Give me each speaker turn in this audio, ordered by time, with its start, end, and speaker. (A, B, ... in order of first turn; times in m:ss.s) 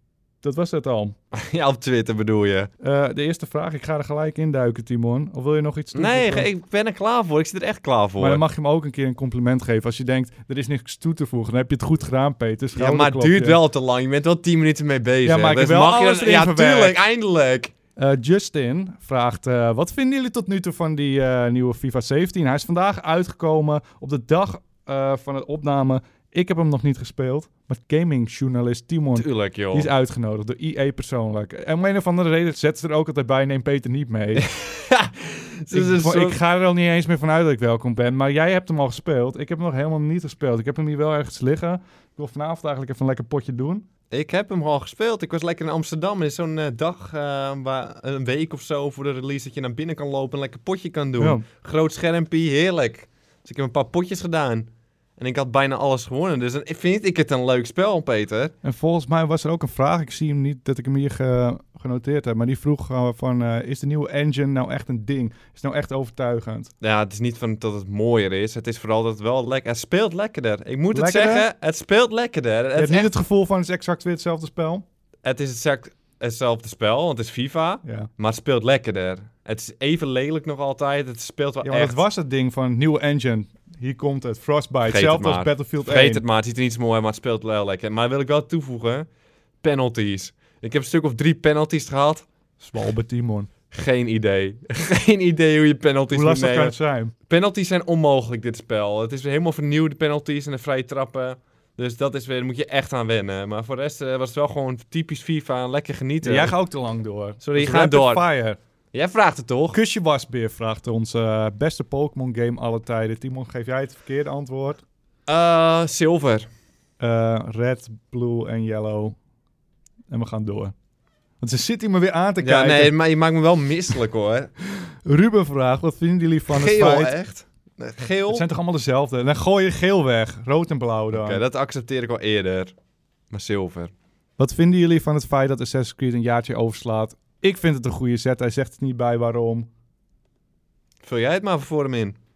0:00.4-0:01.2 A
0:01.3-0:02.7 B
0:02.8-0:06.5 A
0:05.9-0:08.4 B
0:08.2-0:13.6 A
0:12.7-0:17.7 B
0:15.2-0:17.0 A
0:18.0-0:34.5 A
0:29.1-0:29.9 B
0:34.4-0:36.4 B
0:35.7-0:43.8 A
0:44.1-0:58.5 B
0:51.2-0:51.4 A
0:58.6-1:06.7 A
1:06.8-1:13.1 B
1:10.9-1:11.5 A
1:12.7-1:14.8 A
1:15.2-1:22.0 B
1:17.8-1:18.1 A
1:21.6-1:26.2 A
1:24.8-1:29.1 B
1:29.6-1:32.2 B
1:32.6-1:33.5 A
1:33.7-1:36.7 B
1:36.1-1:37.1 A
1:37.3-1:46.5 B
1:46.2-1:48.6 A
1:47.4-1:48.2 B
1:48.9-1:49.8 B
1:49.7-1:54.8 A
1:55.3-1:56.5 B
1:57.0-1:59.2 A
2:00.1-2:00.7 A
2:01.4-2:02.9 A
2:02.4-2:04.5 B
2:05.0-2:07.1 A
2:06.5-2:08.4 B
2:08.3-2:11.4 A
2:11.1-2:12.7 B
2:13.3-2:13.9 B
2:14.4-2:19.7 A
2:21.0-2:22.2 B